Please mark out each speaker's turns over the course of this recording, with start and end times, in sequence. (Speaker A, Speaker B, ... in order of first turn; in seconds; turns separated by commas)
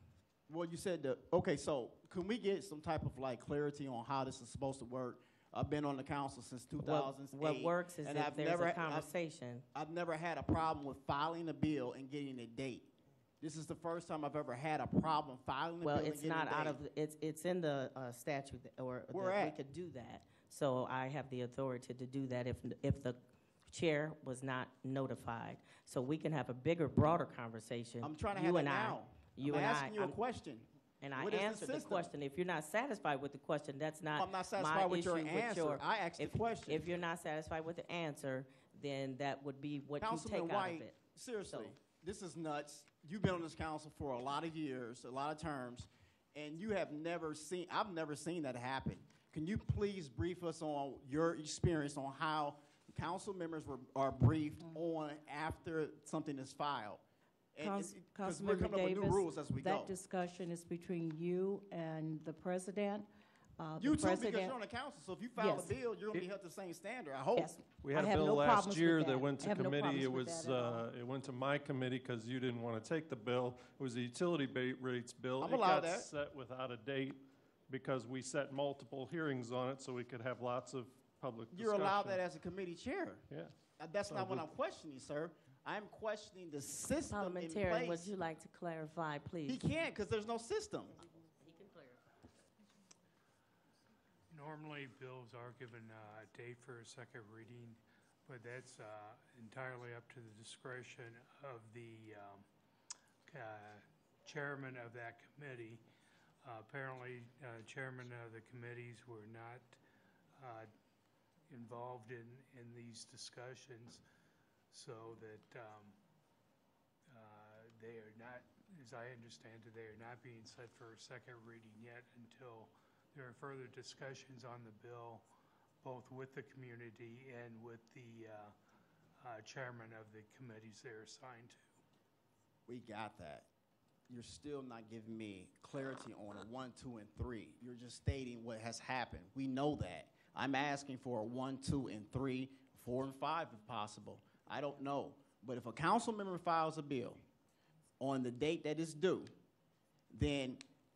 Speaker A: 0.5-9.1, Speaker B: 6.8-9.6, Speaker A: 9.7-16.8, Speaker B: 15.8-30.2, Speaker A: 19.1-19.6, Speaker A: 28.0-32.1, Speaker B: 31.0-40.9, Speaker A: 34.1-36.8, Speaker A: 40.0-57.0, Speaker B: 41.5-41.7, Speaker A: 57.5-59.9, Speaker C: 57.6-64.6, Speaker A: 63.8-67.6, Speaker C: 65.4-65.8, Speaker C: 67.3-70.9, Speaker D: 67.7-82.2, Speaker A: 75.4-76.1, Speaker A: 81.5-83.2, Speaker D: 83.3-84.5, Speaker A: 83.8-88.1, Speaker B: 87.1-89.7, Speaker A: 89.5-91.0, Speaker B: 91.0-92.3, Speaker E: 94.3-102.5, Speaker E: 103.2-105.8, Speaker E: 106.4-109.8, Speaker E: 110.4-110.7, Speaker E: 111.5-114.0, Speaker E: 114.7-116.0, Speaker E: 117.1-125.2, Speaker E: 125.8-128.5, Speaker E: 129.2-131.8, Speaker A: 132.7-133.5, Speaker A: 134.1-147.2, Speaker A: 148.0-149.3, Speaker A: 150.1-150.6